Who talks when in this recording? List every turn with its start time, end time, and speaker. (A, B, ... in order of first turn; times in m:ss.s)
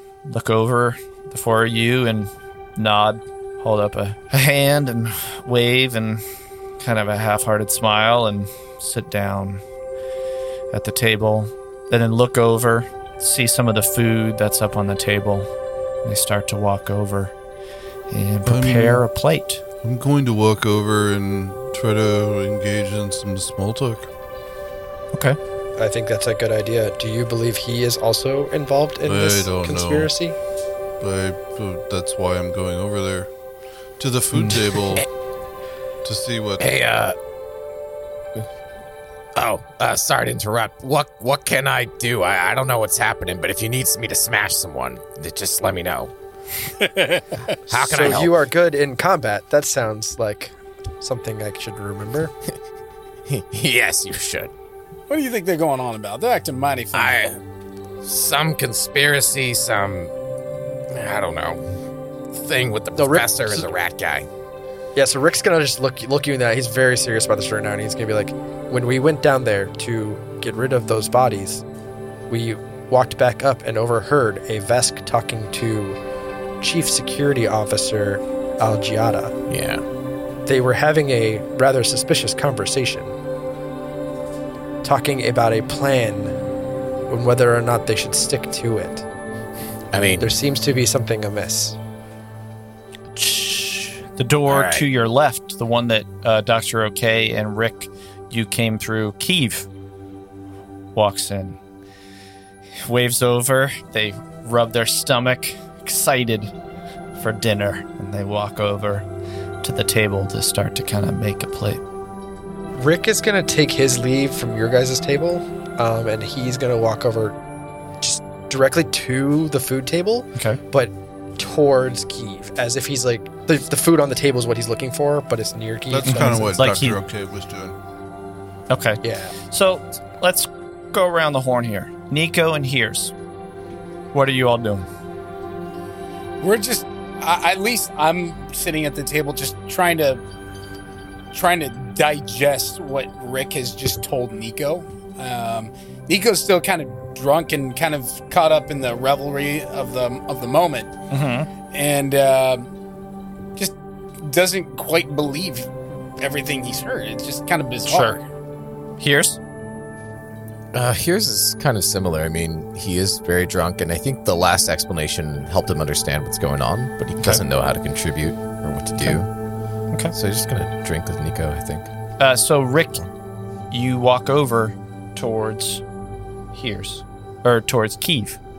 0:00.3-0:06.2 A
0:06.8-0:09.6 A
0:10.7-0:15.5 A
0:16.0-0:17.3 A
0:18.1-0:19.6 A
0:18.4-0:19.0 B
0:19.8-0:24.1 B
0:25.8-0:30.4 C
0:29.0-0:30.1 B
0:31.0-0:33.3 B
0:34.0-0:35.0 B
0:34.3-0:34.7 A
0:36.0-0:36.7 B
0:36.6-0:37.2 D
0:39.4-0:46.1 D
0:46.8-0:47.4 E
0:47.7-0:48.3 D
0:47.7-0:52.3 C
0:53.3-0:54.5 D
0:55.1-0:57.3 E
0:56.9-0:57.4 D
0:58.0-1:00.1 D
1:00.9-1:01.6 D
1:02.3-1:04.3 D
1:02.9-1:03.7 C
1:04.9-1:11.6 C
1:12.3-1:16.0 C
1:16.6-1:19.3 C
1:19.5-1:19.8 D
1:20.4-1:23.2 C
1:24.8-1:26.4 C
1:27.1-1:29.0 C
1:29.9-1:30.3 D
1:30.2-1:31.8 C
1:33.1-1:39.7 A
1:34.5-1:34.9 D
1:40.9-1:41.6 A
1:42.8-1:46.5 A
1:47.1-1:49.0 A
1:49.6-1:51.8 A
1:52.7-1:57.4 C
1:58.0-2:06.6 C
2:05.9-2:07.8 B
2:06.1-2:07.0 A
2:08.7-2:13.1 A
2:09.0-2:09.3 C
2:14.1-2:14.8 A
2:16.4-2:20.2 E
2:21.3-2:30.9 E
2:31.1-2:31.5 A
2:31.7-2:32.7 E
2:33.6-2:38.2 E
2:37.8-2:38.2 A
2:39.0-2:39.4 A
2:40.7-2:49.3 D
2:50.1-2:51.9 D
2:52.2-2:53.1 A
2:53.7-2:55.8 A
2:56.5-2:58.4 A